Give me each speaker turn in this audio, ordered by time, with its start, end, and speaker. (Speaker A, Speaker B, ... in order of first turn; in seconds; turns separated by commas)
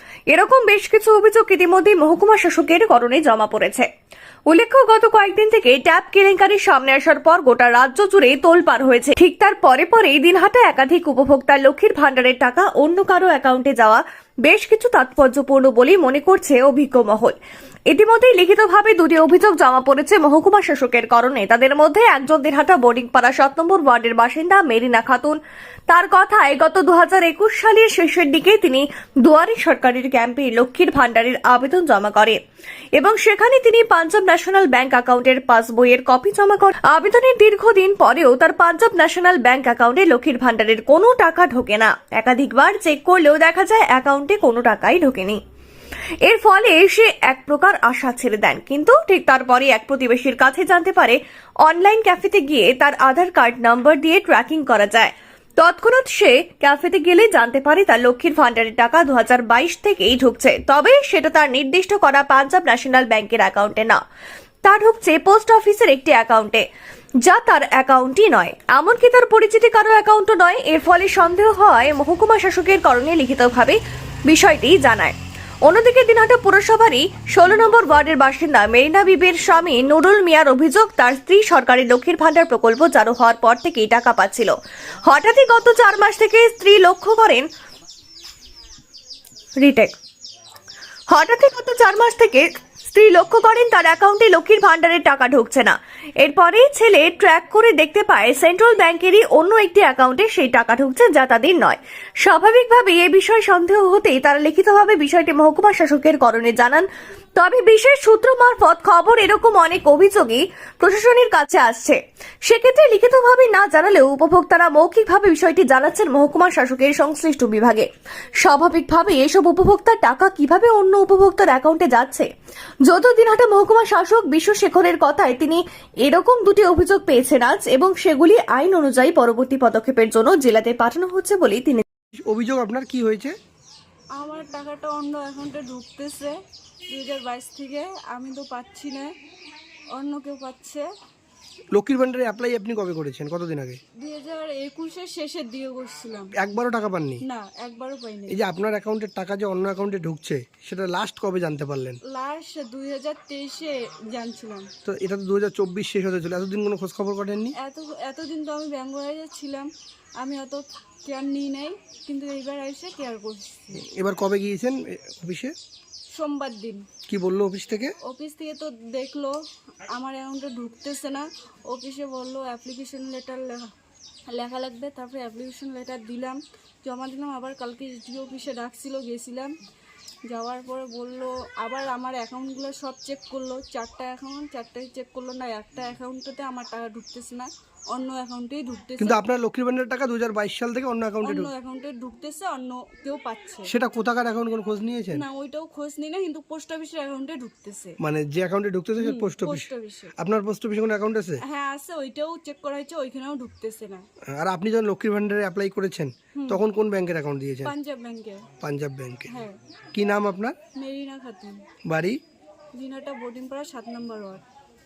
Speaker A: 0.3-3.9, Speaker A: 4.5-17.3, Speaker A: 17.9-32.4, Speaker A: 33.0-45.4, Speaker A: 46.3-64.0, Speaker A: 64.6-66.6, Speaker A: 67.2-84.5, Speaker A: 85.0-87.5, Speaker A: 89.6-89.9, Speaker A: 91.1-117.9, Speaker A: 118.4-122.3, Speaker A: 122.8-131.8, Speaker B: 132.2-133.3, Speaker C: 134.2-136.3, Speaker C: 136.9-139.1, Speaker C: 139.9-140.8, Speaker B: 141.7-143.8, Speaker C: 144.0-146.3, Speaker B: 146.3-147.2, Speaker C: 147.2-148.4, Speaker B: 148.3-152.0, Speaker C: 152.1-154.7, Speaker B: 154.8-157.5, Speaker C: 157.5-163.8, Speaker B: 163.7-165.5, Speaker C: 166.1-166.8, Speaker B: 167.1-167.9, Speaker C: 168.0-169.3, Speaker C: 169.9-173.7, Speaker C: 174.3-179.5, Speaker C: 180.3-189.2, Speaker B: 189.0-191.5, Speaker C: 191.2-193.7, Speaker B: 193.7-195.2, Speaker C: 195.1-198.0, Speaker B: 198.0-201.4, Speaker C: 199.0-200.1, Speaker C: 201.4-204.1, Speaker B: 204.3-207.7, Speaker C: 206.3-206.6, Speaker C: 207.6-208.4, Speaker B: 208.6-209.3, Speaker C: 209.3-209.5, Speaker B: 209.9-210.5, Speaker C: 210.8-211.6, Speaker B: 211.9-212.2, Speaker C: 212.8-214.4